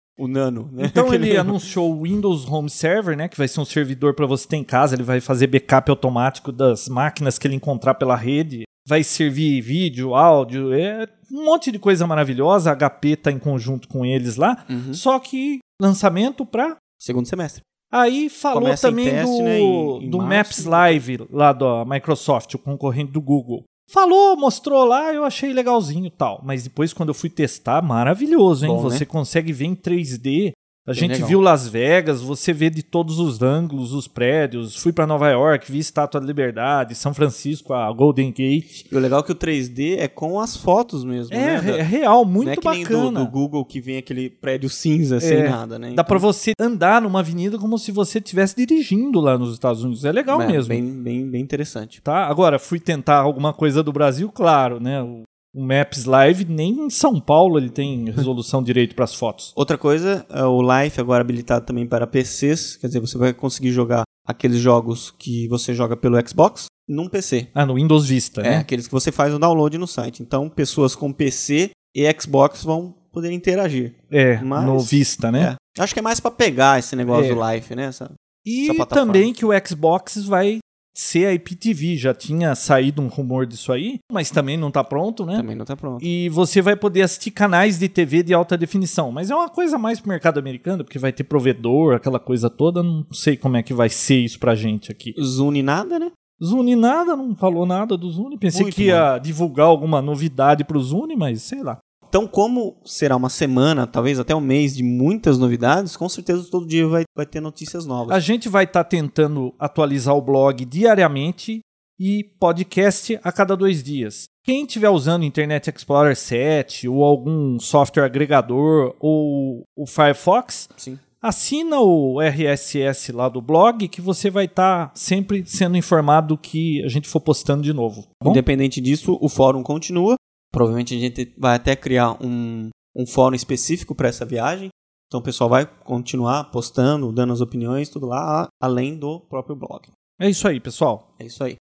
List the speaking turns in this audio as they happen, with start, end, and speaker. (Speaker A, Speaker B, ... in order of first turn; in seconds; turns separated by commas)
Speaker A: 0.2-1.5, Speaker B: 0.8-16.8, Speaker A: 14.7-15.0, Speaker A: 17.0-17.6, Speaker B: 17.9-38.9, Speaker A: 18.5-21.0, Speaker A: 28.6-29.0, Speaker A: 30.9-31.4, Speaker A: 38.9-41.8, Speaker B: 41.3-43.3, Speaker A: 42.4-46.3, Speaker B: 45.2-50.8, Speaker A: 50.3-52.0, Speaker B: 52.0-59.5, Speaker A: 59.5-67.5, Speaker B: 67.5-68.7, Speaker A: 68.4-79.3, Speaker B: 74.1-75.5, Speaker B: 77.1-77.4, Speaker B: 78.5-85.5, Speaker A: 85.3-86.1, Speaker B: 86.0-95.2, Speaker A: 95.2-96.1, Speaker B: 96.4-101.8, Speaker A: 98.5-99.1, Speaker A: 102.1-108.2, Speaker B: 108.1-120.7, Speaker B: 121.2-128.4, Speaker A: 128.2-139.9, Speaker B: 140.2-141.1, Speaker A: 141.2-141.6